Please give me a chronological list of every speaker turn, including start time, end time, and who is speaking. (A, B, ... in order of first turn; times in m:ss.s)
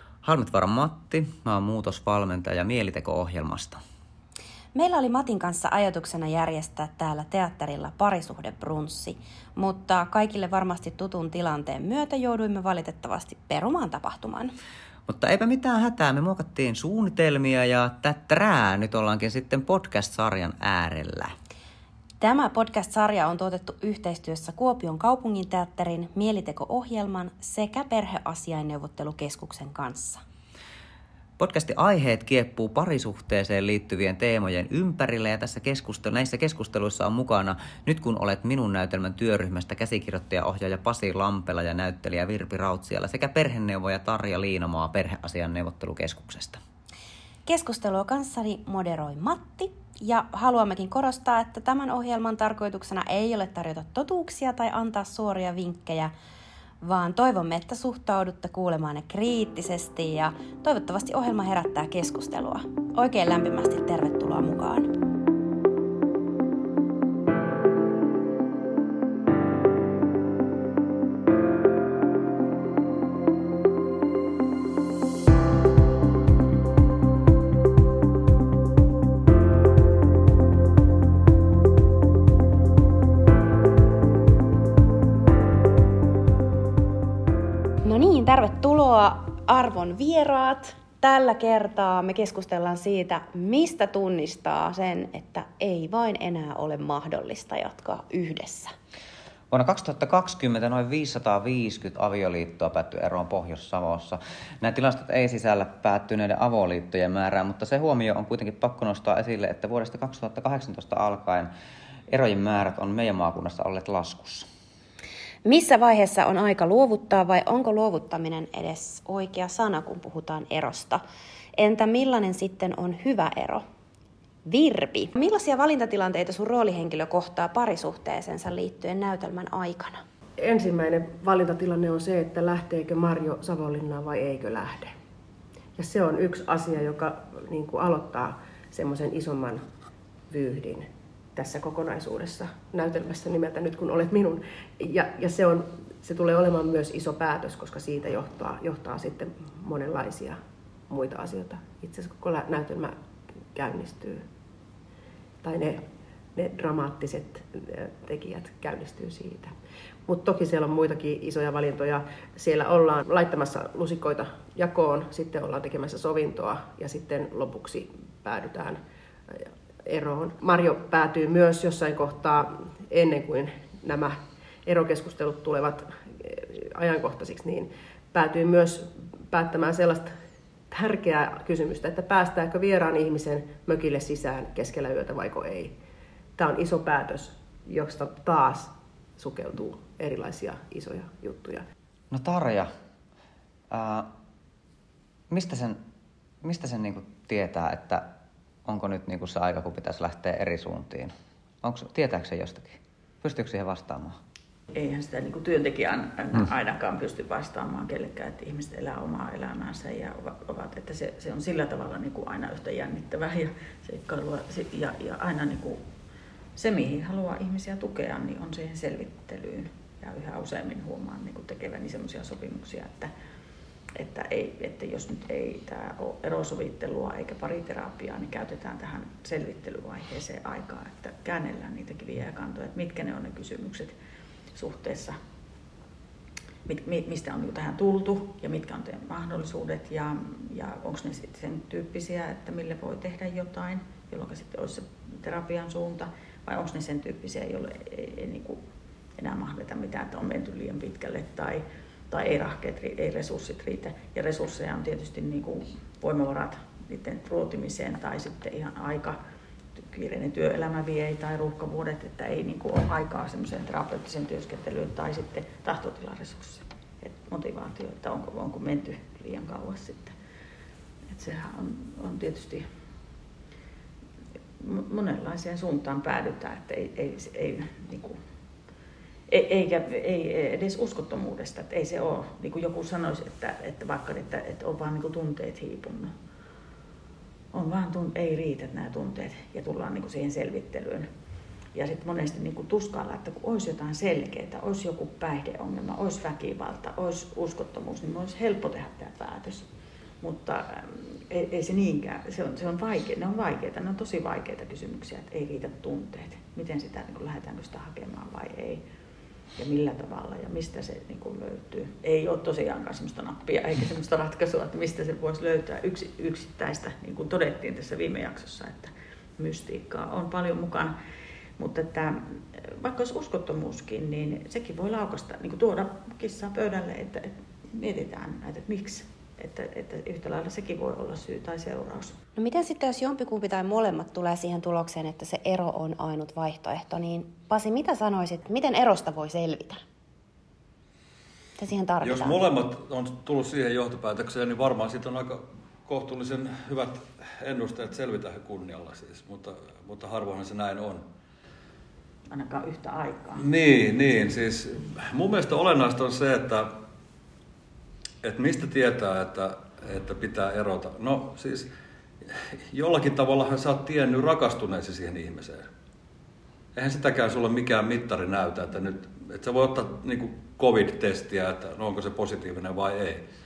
0:00.2-0:03.8 A
0:04.8-0:14.5 B
0:15.1-0:21.3 A
0:22.2-0:30.2 B
0:31.4-0:46.6 A
0:47.5-0:56.1 B
0:56.8-1:04.9 B
1:27.8-1:38.7 B
1:39.5-1:51.5 A
1:52.1-1:54.5 A
1:55.4-2:01.0 B
2:01.6-2:03.6 B
2:04.4-2:10.0 B
2:10.4-2:14.9 C
2:15.8-2:19.6 C
2:20.3-2:32.9 C
2:33.5-2:34.2 C
2:35.4-2:35.8 C
2:36.3-2:39.5 C
2:40.1-3:00.1 C
3:00.7-3:05.7 C
3:06.4-3:11.6 C
3:12.1-3:12.7 A
3:13.7-3:14.1 A
3:15.3-3:15.8 A
3:16.4-3:18.1 A
3:18.7-3:21.1 A
3:21.6-3:24.2 A
3:24.7-3:35.8 D
3:36.6-3:43.1 D
3:43.9-3:54.0 D
3:54.5-3:55.2 D
3:56.6-4:08.6 D
4:09.2-4:19.2 D
4:19.8-4:30.1 D
4:31.1-4:32.7 D
4:34.6-4:38.2 D
4:39.3-4:46.1 D
4:47.5-4:51.1 D
4:51.7-4:59.7 D
5:00.2-5:08.8 D
5:09.6-5:20.9 D
5:21.6-5:32.2 D
5:32.4-5:39.8 B
5:41.6-5:42.4 B
5:42.0-5:51.0 E
5:52.3-5:53.4 D
5:53.4-5:56.7 E
5:58.2-6:01.7 E
6:02.3-6:05.7 E
6:06.8-6:13.2 E